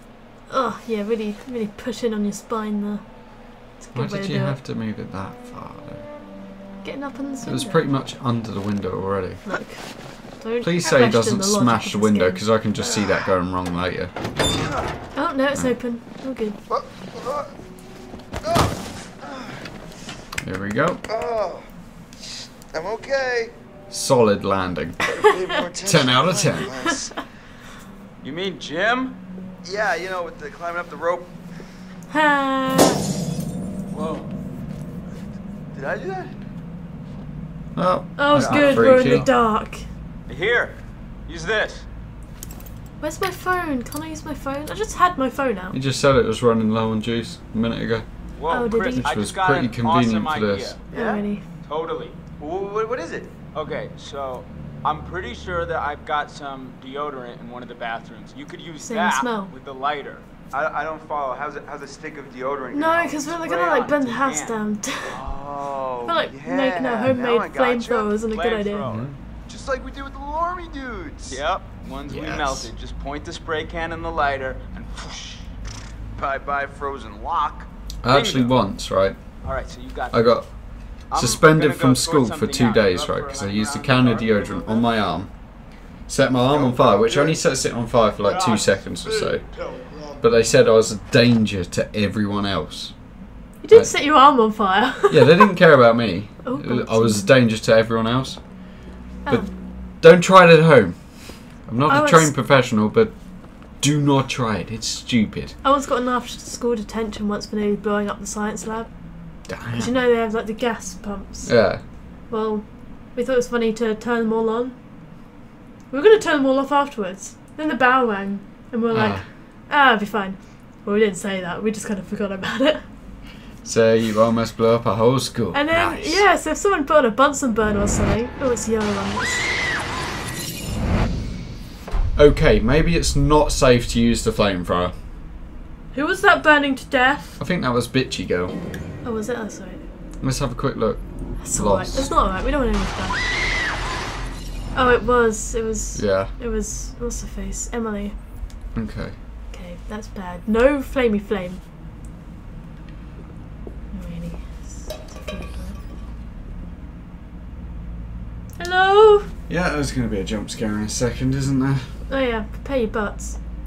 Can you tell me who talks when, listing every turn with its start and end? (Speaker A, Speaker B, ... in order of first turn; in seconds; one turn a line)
Speaker A: 0.5-4.6
Speaker B: 3.9-6.1
Speaker A: 6.8-7.9
Speaker B: 7.4-9.5
Speaker A: 9.4-12.5
Speaker B: 10.6-14.1
Speaker C: 14.5-14.8
Speaker A: 15.1-16.6
Speaker C: 16.7-17.5
Speaker C: 18.4-19.6
Speaker B: 20.4-21.0
Speaker C: 21.1-23.5
Speaker B: 23.9-25.0
Speaker C: 25.0-27.3
Speaker B: 25.8-26.8
Speaker D: 28.2-29.2
Speaker C: 29.6-31.4
Speaker A: 32.1-33.0
Speaker D: 33.9-34.3
Speaker C: 35.7-36.4
Speaker B: 37.8-39.3
Speaker A: 38.2-39.9
Speaker D: 38.3-39.3
Speaker D: 40.3-41.9
Speaker A: 43.0-45.8
Speaker B: 45.7-48.1
Speaker D: 48.4-50.9
Speaker A: 48.5-49.1
Speaker B: 48.9-50.8
Speaker C: 50.9-51.2
Speaker A: 50.9-51.5
Speaker D: 51.6-52.2
Speaker C: 52.4-53.3
Speaker D: 53.5-60.2
Speaker A: 58.8-59.5
Speaker C: 60.5-63.3
Speaker A: 62.7-65.2
Speaker D: 63.3-64.6
Speaker C: 65.1-68.2
Speaker A: 66.0-68.8
Speaker D: 68.3-69.1
Speaker B: 68.8-69.2
Speaker C: 69.5-71.5
Speaker D: 71.3-75.5
Speaker B: 72.1-72.7
Speaker C: 76.2-77.7
Speaker B: 78.0-89.5
Speaker D: 78.1-78.6
Speaker D: 79.4-84.9
Speaker C: 86.5-87.4
Speaker C: 88.2-90.3
Speaker B: 90.1-94.6
Speaker A: 93.6-95.5
Speaker B: 95.1-105.6
Speaker A: 96.4-97.3
Speaker A: 99.2-99.5
Speaker A: 101.9-102.3
Speaker A: 105.6-115.2
Speaker B: 109.5-109.9
Speaker B: 111.4-111.8
Speaker A: 115.9-122.9
Speaker B: 118.9-119.3
Speaker B: 123.6-126.3
Speaker A: 125.5-129.5
Speaker B: 132.2-135.0
Speaker A: 135.9-137.4
Speaker B: 137.4-138.6
Speaker A: 139.0-139.8
Speaker B: 140.2-142.1
Speaker A: 141.4-143.2
Speaker A: 144.7-148.2
Speaker B: 145.9-146.3
Speaker B: 148.7-149.2
Speaker A: 149.5-151.6
Speaker A: 153.9-155.8
Speaker A: 158.6-159.3
Speaker B: 159.5-162.0
Speaker A: 162.1-163.4